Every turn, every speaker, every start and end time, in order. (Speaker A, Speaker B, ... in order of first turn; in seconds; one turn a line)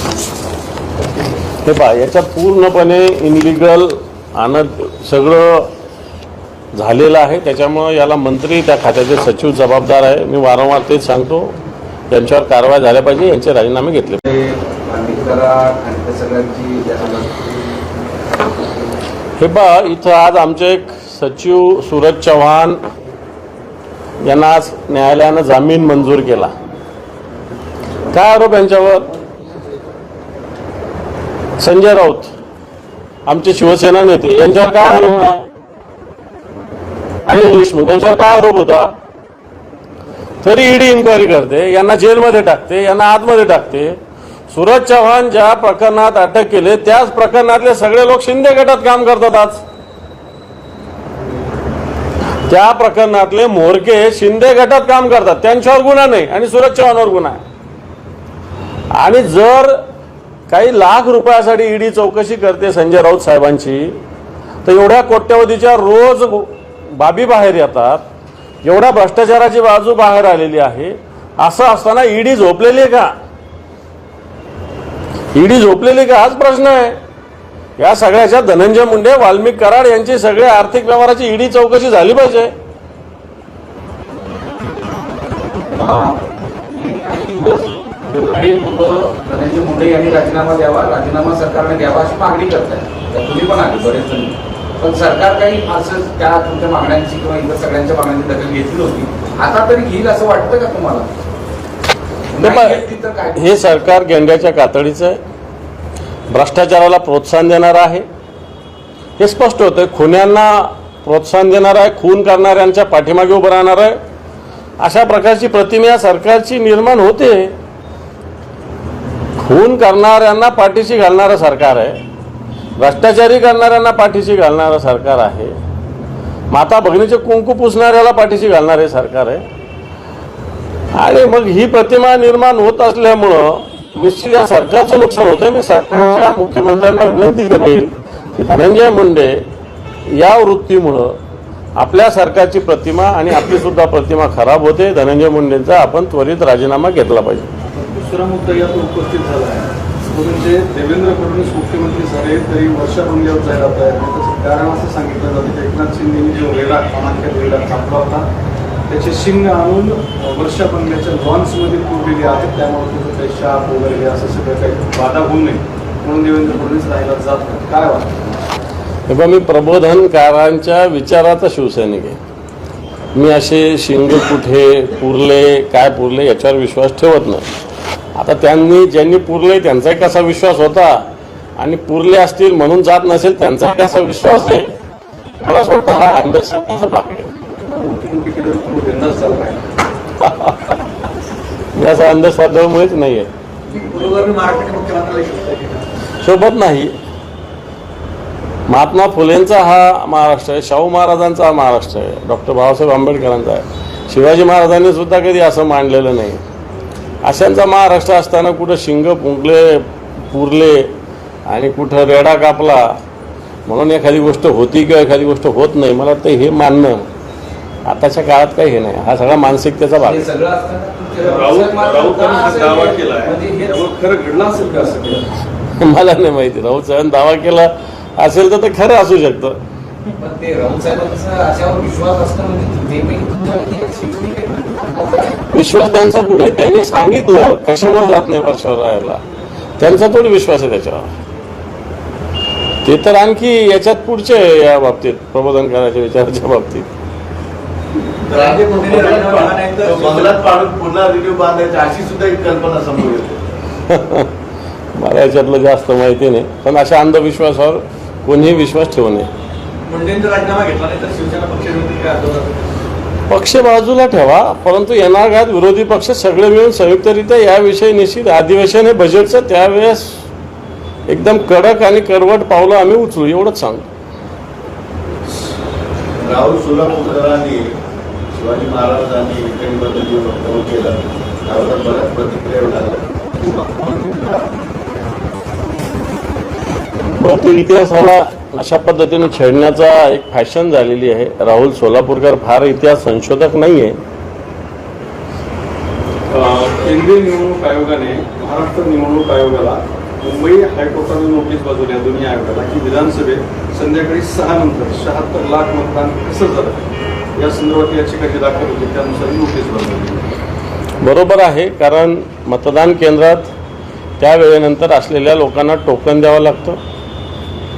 Speaker A: 1.6-5.7
Speaker A: 6.7-11.5
Speaker A: 12.1-14.2
Speaker B: 14.2-17.6
Speaker A: 19.4-22.8
Speaker A: 24.2-26.5
Speaker A: 28.1-29.1
Speaker A: 31.6-32.3
Speaker A: 33.2-35.5
Speaker A: 37.2-38.9
Speaker A: 40.4-44.0
Speaker A: 44.5-49.6
Speaker A: 52.4-57.4
Speaker A: 58.9-59.8
Speaker A: 60.5-64.0
Speaker A: 64.6-68.0
Speaker A: 68.6-73.1
Speaker A: 75.3-77.0
Speaker A: 77.8-82.5
Speaker B: 88.1-101.1
Speaker B: 102.3-103.8
Speaker A: 102.4-102.8
Speaker A: 103.3-105.2
Speaker A: 106.3-108.0
Speaker A: 109.2-114.0
Speaker A: 114.8-117.5
Speaker A: 119.4-122.0
Speaker A: 122.8-125.5
Speaker A: 126.5-129.4
Speaker A: 130.9-139.4
Speaker A: 140.1-141.2
Speaker A: 141.8-147.5
Speaker C: 147.7-158.3
Speaker C: 158.9-168.3
Speaker A: 169.1-172.2
Speaker A: 173.1-177.4
Speaker A: 178.1-181.0
Speaker A: 181.6-184.7
Speaker A: 185.4-187.3
Speaker C: 187.7-189.6
Speaker A: 190.2-190.7
Speaker A: 191.7-193.3
Speaker D: 193.7-195.8
Speaker A: 196.2-196.9
Speaker A: 198.7-206.4
Speaker A: 207.2-210.9
Speaker A: 211.4-213.0
Speaker A: 213.7-217.1
Speaker A: 217.8-220.2
Speaker B: 220.0-223.9
Speaker C: 221.2-225.3
Speaker A: 225.8-229.6
Speaker B: 230.2-235.3
Speaker A: 235.5-239.2
Speaker A: 239.8-241.1
Speaker A: 242.8-246.9
Speaker E: 248.2-253.4
Speaker D: 248.3-250.3
Speaker A: 253.9-254.3
Speaker A: 254.9-259.3
Speaker D: 259.9-262.7
Speaker A: 263.3-270.2
Speaker A: 271.1-273.9
Speaker E: 276.2-277.7
Speaker E: 278.3-283.7
Speaker A: 287.1-294.0
Speaker C: 296.3-310.2
Speaker A: 311.0-313.5
Speaker A: 314.2-316.8